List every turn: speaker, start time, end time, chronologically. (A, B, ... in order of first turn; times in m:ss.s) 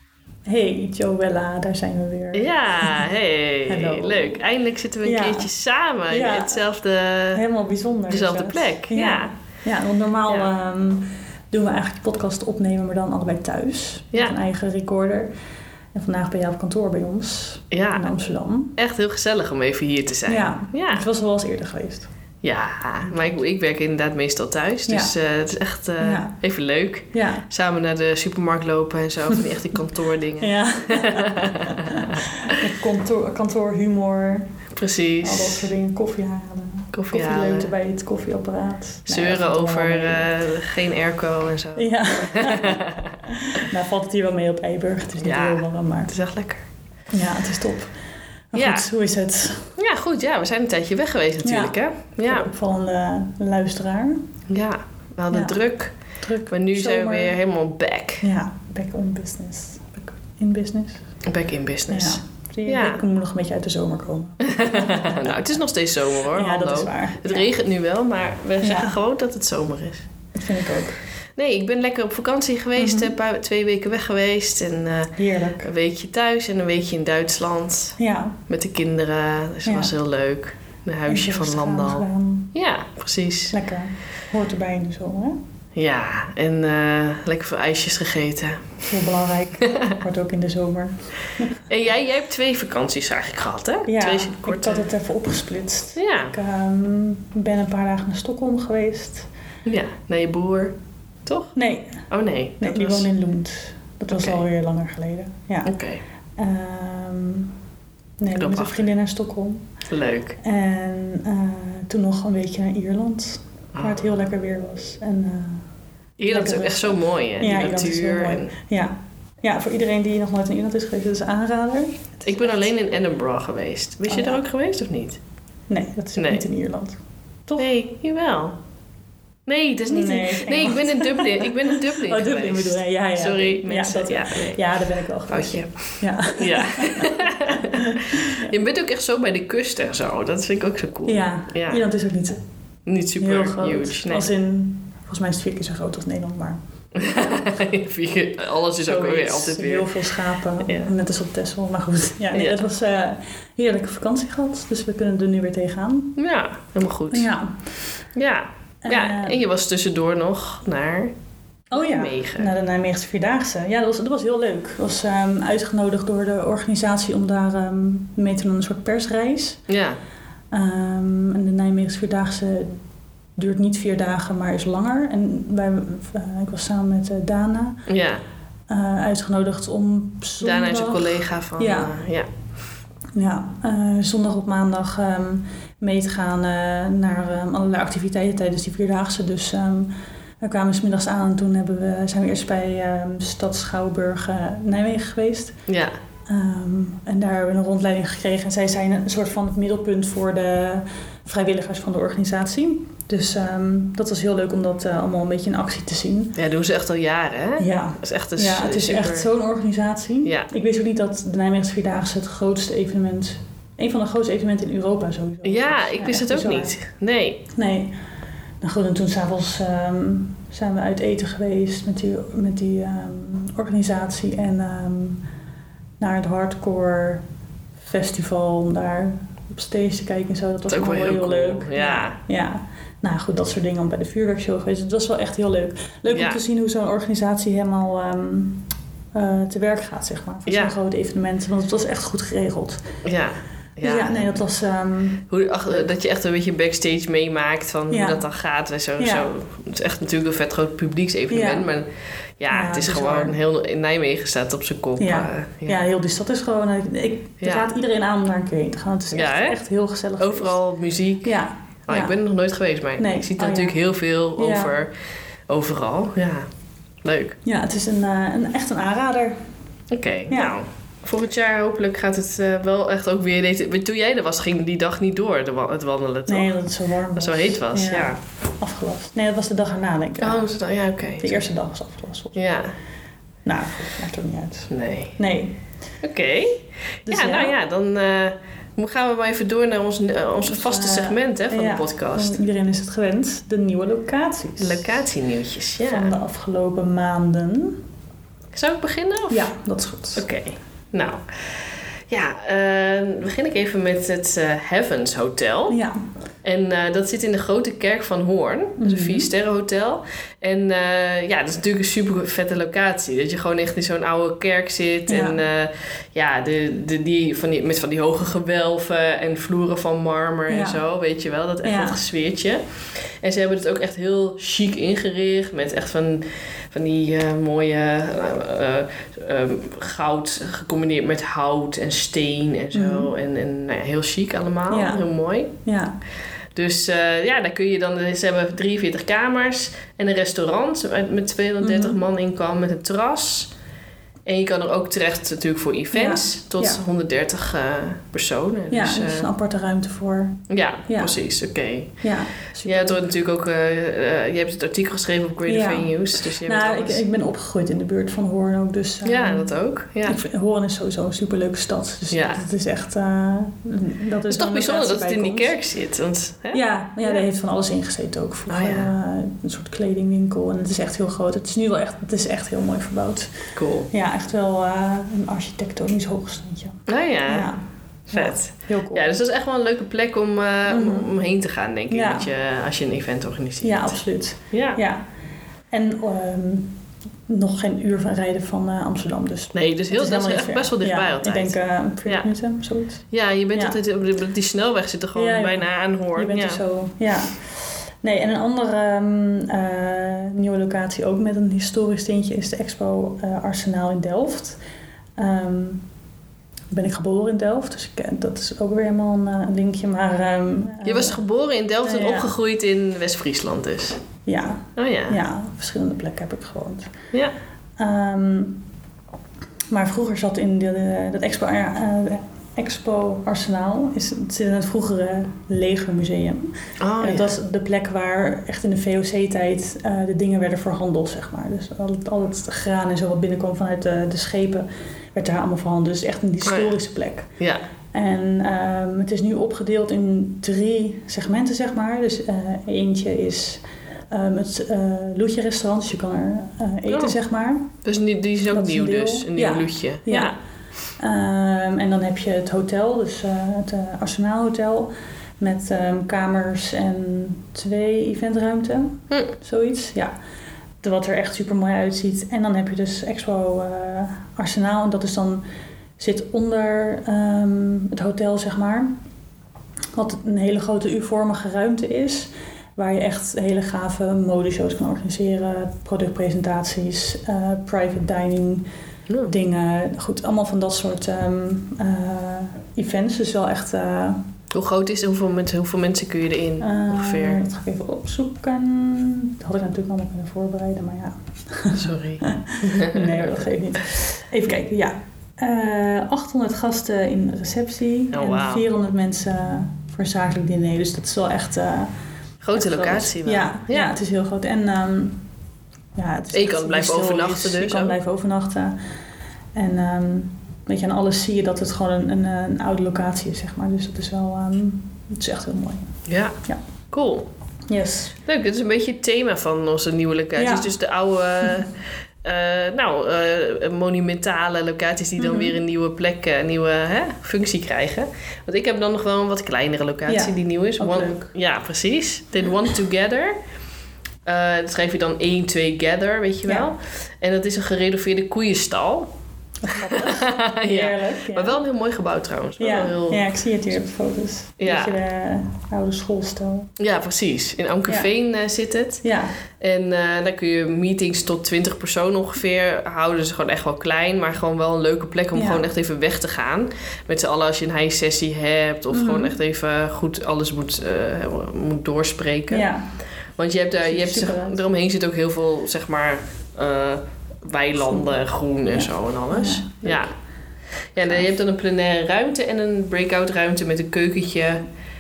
0:00.5-0:03.1 A
0:02.3-0:07.4 B
0:03.7-0:04.4 A
0:05.0-0:05.5 A
0:06.1-0:06.6 A
0:07.3-0:15.3 A
0:08.1-0:09.3 B
0:15.9-0:18.8 A
0:17.7-0:18.1 B
0:18.8-0:21.0 B
0:20.3-0:22.1 A
0:22.4-0:32.7 B
0:24.9-0:25.1 A
0:26.0-0:26.3 A
0:27.1-0:27.5 A
0:30.4-0:34.5 A
0:34.8-0:35.7 B
0:35.2-0:40.3 A
0:36.9-0:37.7 B
0:39.1-0:43.7 B
0:41.8-0:46.1 A
0:45.2-0:46.6 B
0:47.1-0:47.9 A
0:48.5-0:49.8 A
0:48.6-0:48.9 B
0:49.8-0:52.5 B
0:51.4-0:54.3 A
0:54.5-0:56.0 B
0:55.3-0:55.6 A
0:56.2-0:57.4 A
0:56.5-0:58.3 B
0:58.2-1:01.0 A
1:01.3-1:03.0 B
1:01.9-1:05.5 A
1:04.4-1:10.1 B
1:06.3-1:07.5 A
1:08.6-1:09.0 A
1:10.3-1:11.0 A
1:11.4-1:23.6 B
1:12.8-1:13.2 A
1:15.2-1:15.7 A
1:18.0-1:18.4 A
1:19.6-1:19.9 A
1:21.1-1:22.5 A
1:23.5-1:25.4 A
1:25.8-1:28.7 B
1:28.9-1:31.5 A
1:29.6-1:29.9 B
1:31.7-1:34.9 B
1:33.9-1:39.3 A
1:36.0-1:36.3 B
1:39.7-1:41.6 B
1:41.6-1:42.1 A
1:42.1-1:43.1 B
1:42.6-1:45.7 A
1:44.1-1:44.4 B
1:45.6-1:46.0 B
1:46.4-1:47.5 A
1:48.2-1:49.6 A
1:48.4-1:48.8 B
1:49.9-1:50.4 B
1:50.4-1:55.7 A
1:53.8-1:54.2 B
1:56.2-1:58.5 B
1:56.3-2:02.5 A
2:02.2-2:05.2 B
2:04.1-2:04.4 A
2:05.7-2:07.7 A
2:06.2-2:06.5 B
2:07.6-2:08.6 B
2:09.5-2:14.7 B
2:09.9-2:18.5 A
2:15.3-2:21.8 B
2:21.1-2:22.4 A
2:22.9-2:24.3 B
2:23.2-2:27.5 A
2:27.0-2:30.0 B
2:28.8-2:36.2 A
2:30.6-2:30.9 B
2:32.3-2:32.6 B
2:36.2-2:37.3 B
2:37.1-2:37.6 A
2:38.2-2:41.1 B
2:38.8-2:39.4 A
2:41.7-2:49.6 A
2:41.7-2:42.5 B
2:49.7-2:50.0 B
2:50.5-2:52.8 A
2:53.4-2:57.8 A
2:57.9-2:58.2 B
2:58.7-3:01.9 A
3:00.4-3:02.3 B
3:03.2-3:15.6 A
3:15.7-3:16.0 B
3:16.3-3:26.4 A
3:26.4-3:29.3 B
3:27.6-3:36.8 A
3:30.2-3:30.5 B
3:35.4-3:37.5 B
3:37.5-3:38.0 A
3:38.6-3:45.2 A
3:46.0-3:47.2 A
3:47.8-4:02.8 A
3:50.7-3:52.2 B
3:56.1-3:56.4 B
4:00.5-4:00.7 B
4:03.0-4:04.4 B
4:03.8-4:05.9 A
4:05.3-4:11.9 B
4:07.9-4:08.2 A
4:09.0-4:09.3 A
4:11.3-4:11.7 A
4:12.4-4:15.8 B
4:12.5-4:13.4 A
4:15.0-4:20.6 A
4:17.4-4:17.7 B
4:19.1-4:19.6 B
4:20.2-4:24.9 B
4:21.2-4:22.2 A
4:23.0-4:23.8 A
4:24.4-4:24.7 A
4:25.5-4:26.5 B
4:27.0-4:27.4 B
4:27.4-4:29.4 A
4:29.9-4:36.5 B
4:30.3-4:30.6 A
4:36.3-4:40.6 A
4:37.2-4:38.2 B
4:40.2-4:41.4 B
4:41.2-4:42.4 A
4:42.4-4:42.7 B
4:43.4-4:45.6 A
4:44.7-4:45.2 B
4:46.0-4:52.4 B
4:47.1-4:47.6 A
4:50.5-4:55.0 A
4:54.6-4:56.1 B
4:55.8-4:57.8 A
4:58.5-4:59.5 B
4:59.3-5:00.2 A
5:00.2-5:05.8 B
5:05.7-5:06.0 A
5:06.4-5:35.5 B
5:08.8-5:09.3 A
5:15.1-5:15.4 A
5:20.5-5:20.8 A
5:21.6-5:22.0 A
5:32.7-5:33.1 A
5:34.7-5:35.1 A
5:35.6-5:36.0 A
5:36.6-5:43.5 B
5:41.6-5:42.0 A
5:44.3-5:49.3 B
5:45.9-5:46.8 A
5:48.7-5:51.2 A
5:50.5-5:57.0 B
5:52.0-5:53.0 A
5:55.5-6:05.6 A
5:59.0-6:00.2 B
6:02.1-6:02.4 B
6:04.3-6:07.2 B
6:06.5-6:19.1 A
6:08.5-6:08.9 B
6:13.6-6:13.9 B
6:16.9-6:17.6 B
6:18.1-6:24.0 B
6:20.7-6:21.1 A
6:21.9-6:22.3 A
6:23.6-6:25.0 A
6:24.5-6:24.8 B
6:25.7-6:26.8 A
6:27.3-6:33.8 A
6:29.5-6:32.3 B
6:33.1-6:36.6 B
6:35.2-6:44.6 A
6:45.2-6:45.9 A
6:46.7-6:51.2 A
6:50.8-6:54.0 B
6:51.8-6:52.3 A
6:54.2-6:56.9 A
6:54.8-6:55.2 B
6:57.8-6:58.6 A
6:59.7-7:17.3 A
7:06.8-7:07.3 B
7:16.4-7:16.8 B
7:17.9-7:27.8 A
7:26.9-7:27.2 B
7:27.8-7:30.4 B
7:28.5-7:30.4 A
7:31.0-7:40.1 A
7:40.8-7:45.4 A
7:46.0-7:49.0 A
7:50.0-7:58.7 A
7:59.3-8:04.2 A
8:04.5-8:07.4 B
8:06.6-8:22.0 A
8:11.8-8:13.2 B
8:18.1-8:18.6 B
8:22.4-8:24.0 B
8:22.6-8:25.2 A
8:26.0-8:28.8 A
8:26.3-8:28.0 B
8:29.5-8:36.6 A
8:36.1-8:36.4 B
8:36.9-8:37.3 B
8:37.7-8:38.2 A
8:38.3-8:41.7 B
8:40.4-8:40.7 A
8:42.2-8:53.4 B
8:45.2-8:45.6 A
8:50.1-8:51.3 A
8:54.3-8:59.1 B
8:59.6-9:01.6 A
8:59.7-9:03.3 B
9:02.6-9:06.7 A
9:04.6-9:04.9 B
9:06.8-9:09.0 B
9:09.0-9:09.4 A
9:09.6-9:22.7 B
9:15.3-9:15.7 A
9:18.9-9:19.4 A
9:22.5-9:22.9 A
9:23.4-9:30.1 B
9:23.8-9:24.6 A
9:28.7-9:30.1 A
9:31.0-9:34.6 B
9:31.0-9:31.3 A